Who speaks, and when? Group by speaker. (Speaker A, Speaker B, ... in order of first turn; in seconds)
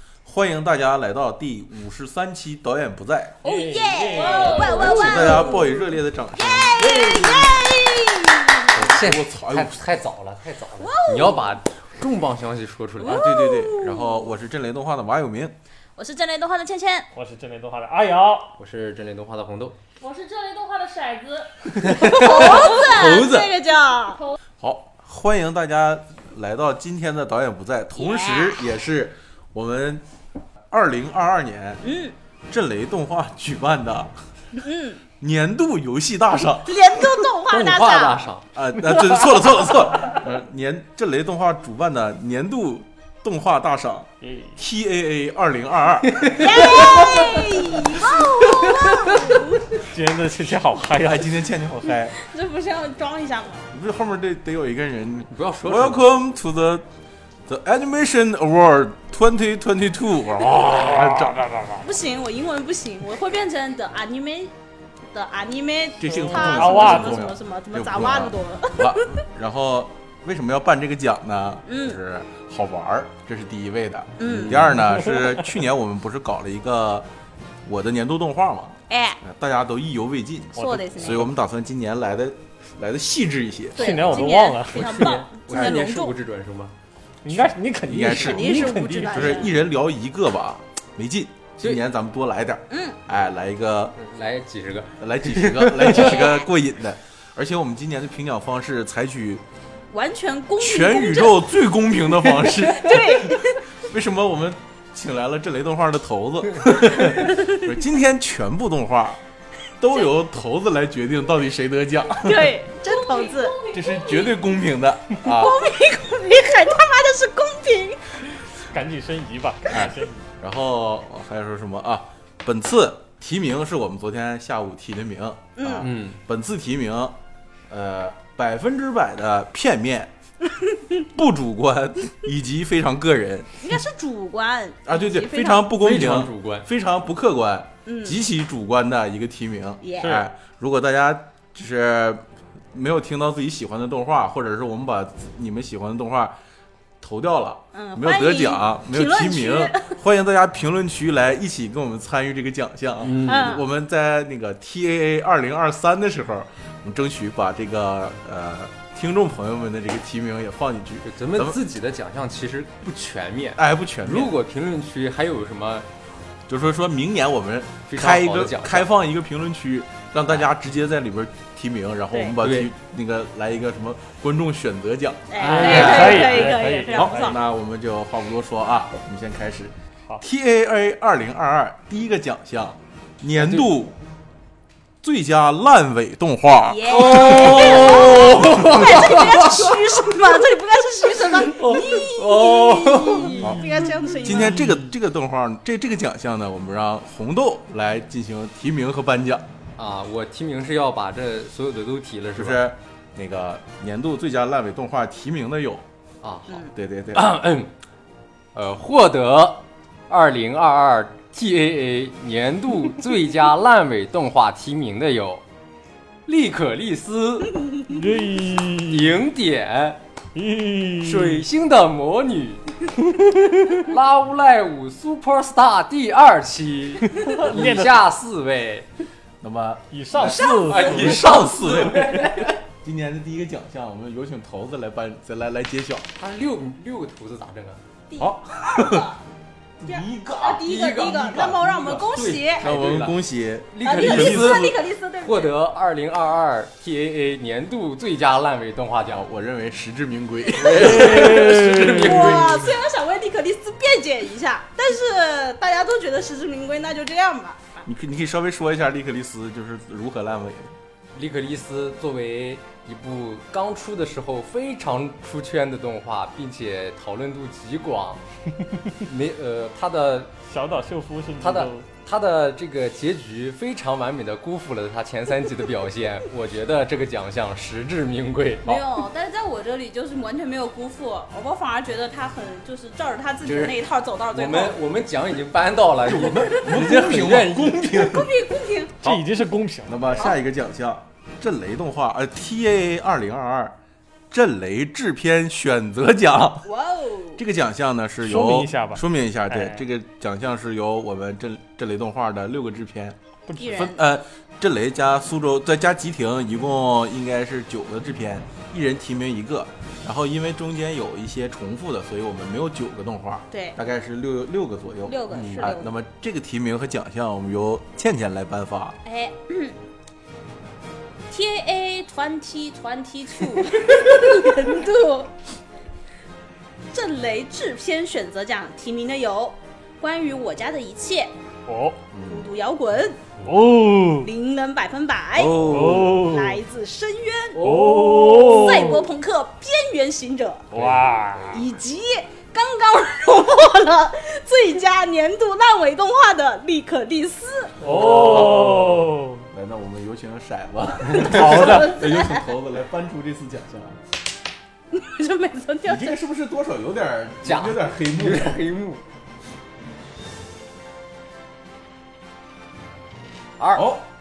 Speaker A: 0.2-3.4, 4.6-7.2, 8.8-9.8, 13.0-15.6, 24.6-30.0, 30.7-31.8, 32.5-34.2, 35.2-36.8, 38.5-47.0, 50.9-52.1, 53.7-56.9, 57.5-61.8, 66.0-77.1, 77.6-84.2, 87.8-93.9, 95.0-99.4, 100.6-109.2, 109.8-112.6, 113.7-115.5, 119.7-127.2, 127.7-130.1, 131.1-133.6, 134.8-146.4, 147.0-161.6, 163.6-164.3, 166.5-183.9, 185.0-189.8, 193.4-199.4, 202.3-205.8, 206.7-207.3, 229.4-236.1, 238.2-239.1, 239.8-244.8, 249.1-252.6, 257.8-260.7, 286.0-288.3, 289.9-293.8, 294.3-296.7, 297.4-319.0, 332.1-332.5, 335.4-336.3, 347.8-354.0, 355.8-358.6, 363.7-364.1
Speaker B: 3.4-5.8, 6.3-8.7, 10.8-11.6, 13.0-14.3, 16.0-17.1, 21.9-24.2, 27.9-28.6, 31.8-32.1, 34.6-35.0, 36.6-38.2, 46.3-49.6, 52.1-53.7, 61.8-64.5, 65.1-69.2, 71.7-72.0, 74.2-74.7, 78.9-79.2, 80.5-81.3, 83.7-86.1, 88.0-89.5, 92.7-93.0, 96.0-96.4, 99.9-101.5, 102.7-103.6, 107.2-107.6, 112.2-113.6, 115.2-118.0, 125.6-125.9, 133.6-135.8, 137.8-138.2, 139.8-140.2, 147.7-149.9, 153.2-153.6, 175.3-177.4, 186.6-194.6, 230.2-231.0, 238.1-239.2, 239.8-242.7, 243.8-245.5, 251.8-257.9, 278.6-284.8, 288.1-288.9, 296.6-297.4, 303.6-304.0, 313.5-313.8, 315.1-315.9, 319.0-319.8, 321.3-325.3, 326.9-331.3, 332.3-333.2, 334.2-337.6, 338.5-340.7, 341.5-347.7, 351.1-352.4, 354.9-356.1
Speaker C: 3.4-4.7, 6.8-7.6, 17.1-18.5, 44.2-44.6, 49.8-51.4, 60.6-61.6, 66.3-67.3, 74.8-75.3, 83.8-85.1, 87.2-89.4, 118.7-120.2, 175.4-177.3, 217.9-219.2, 220.3-221.4, 227.1-228.0, 229.9-231.4, 250.8-252.2, 270.4-271.8, 289.0-290.1, 298.2-299.8, 303.5-303.8, 331.7-332.0, 333.4-334.3, 335.5-336.6, 337.6-339.1, 340.7-341.6, 347.8-349.4, 351.2-352.0
Speaker D: 3.9-5.6, 20.0-23.1, 112.7-114.5
Speaker E: 8.7-13.3, 18.6-19.8, 21.8-23.5, 37.5-38.4, 46.1-49.3, 55.3-56.0, 84.7-86.7, 94.0-96.2, 125.8-126.2, 135.8-136.7, 153.0-153.6, 161.0-165.8, 167.9-168.9, 172.4-172.7, 175.4-176.5, 183.3-183.7, 186.9-189.8, 191.2-194.9, 199.8-202.7, 206.2-207.7, 208.5-215.4, 216.2-217.7, 218.7-220.0, 221.0-222.7, 223.7-228.9, 230.7-232.6, 236.2-237.8, 240.6-243.2, 243.7-249.2, 250.5-252.7, 261.1-268.2, 268.9-270.3, 271.4-278.8, 283.4-283.8, 284.3-288.2, 337.6-338.9, 340.7-341.4, 357.4-359.0, 363.6-363.9